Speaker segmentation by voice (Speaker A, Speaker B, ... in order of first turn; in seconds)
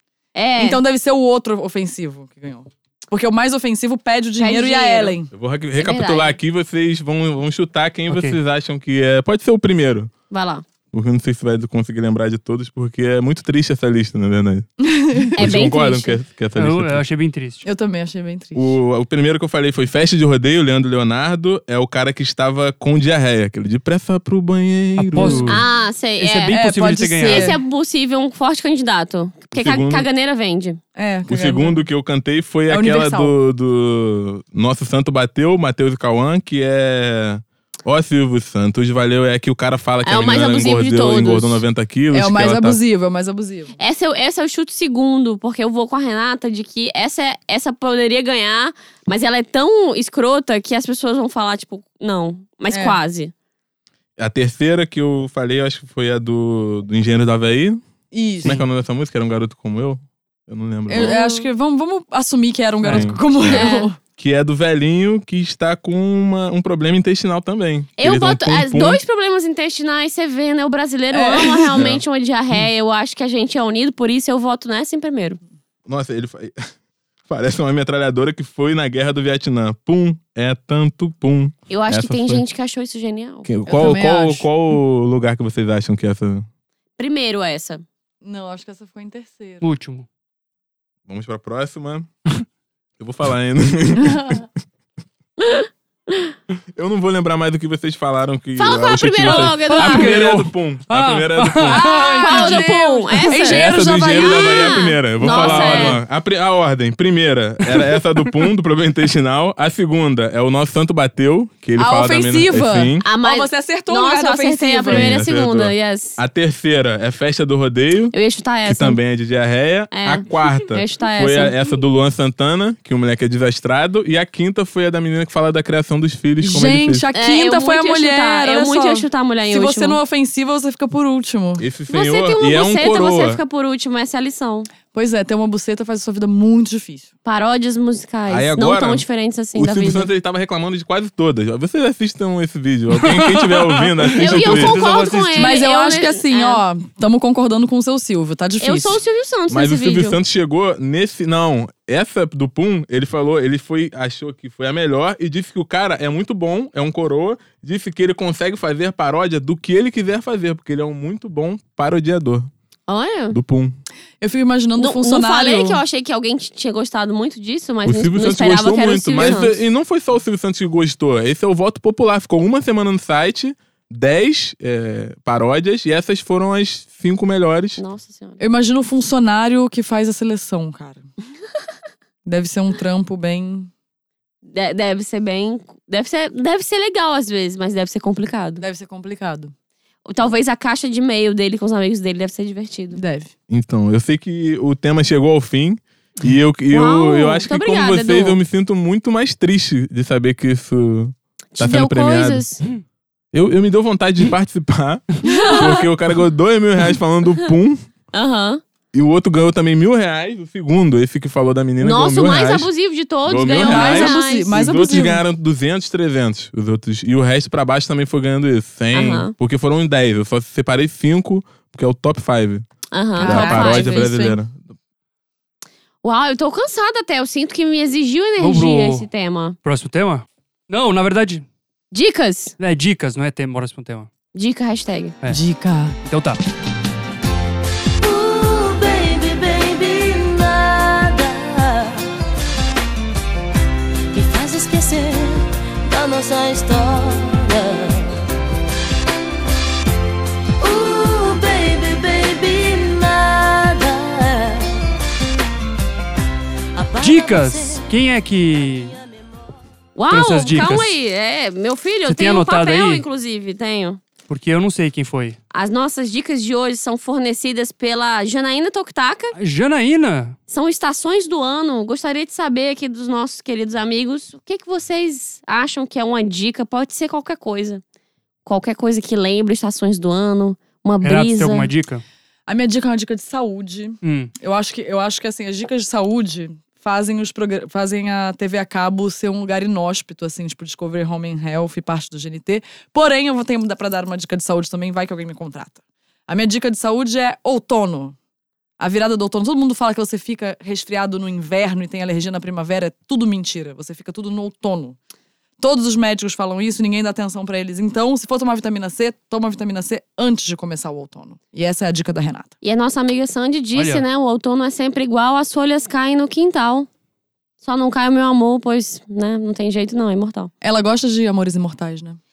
Speaker A: 0.3-0.8, 4.4-5.2, 5.8-6.4, 10.3-10.6, 15.4-16.2, 25.5-26.6, 27.2-30.8, 40.0-41.6, 43.8-53.3, 60.9-61.5, 63.5-63.9, 68.0-75.4, 81.7-83.5, 87.0-87.8, 95.4-96.3, 98.6-100.1, 102.1-106.0, 113.0-116.2, 118.1-119.0, 119.9-121.6, 127.1-130.0, 131.9-134.7, 137.2-140.1, 144.2-146.6, 148.6-150.2, 162.9-163.4, 164.8-169.5, 177.8-178.4, 184.5-188.6, 190.1-193.0, 196.7-198.4, 201.6-202.6, 205.3-205.6, 208.1-208.6, 211.8-214.8, 218.9-219.3, 222.9-224.1, 226.0-229.6, 231.9-232.6, 234.3-235.1, 259.9-264.0, 265.5-269.3, 270.5-277.8, 278.4-281.7, 312.6-316.9, 317.6-320.5
Speaker B: 0.6-5.3, 14.9-15.3, 17.6-18.8, 25.2-25.4, 26.6-27.6, 30.9-31.9, 32.7-33.3, 42.1-43.8, 52.7-53.0, 58.1-58.6, 60.9-64.0, 71.1-71.9, 83.7-84.4, 88.2-89.6, 101.7-106.0, 111.8-115.1, 126.4-131.7, 134.9-137.1, 145.4-149.0, 164.2-165.8, 178.4-181.1, 182.2-183.7, 188.6-189.5, 192.9-193.3, 205.4-205.7, 213.5-215.2, 223.2-224.4, 235.3-235.9, 282.5-298.1, 298.8-305.0, 305.6-312.5, 320.6-322.2
Speaker C: 5.3-10.1, 10.9-14.7, 15.3-17.0, 18.6-25.6, 29.6-30.1, 31.3-42.8, 54.2-57.8, 58.4-61.2, 62.9-63.6, 64.2-69.0, 71.7-72.0, 75.8-76.5, 77.3-82.4, 83.5-86.5, 91.1-92.1, 93.0-94.5, 96.7-101.8, 103.3-113.0, 114.9-127.1, 131.6-133.4, 138.3-144.8, 149.5-162.5, 163.3-163.8, 167.8-177.8, 193.5-202.4, 203.3-207.8, 208.9-212.7, 213.2-222.6, 223.2-224.6
Speaker D: 8.1-8.3, 16.6-17.6, 25.1-25.6, 26.2-27.6, 62.8-63.1, 89.6-90.0, 99.6-102.6, 142.9-145.6, 228.4-229.1, 229.6-231.4, 232.6-234.1, 236.0-236.4, 257.0-259.0, 260.1-260.9, 262.1-263.0, 264.3-265.4, 269.3-270.4, 281.0-282.0, 284.0-284.3, 313.7-314.0
Speaker E: 238.0-242.1, 244.1-248.2, 250.6-254.8, 256.7-257.9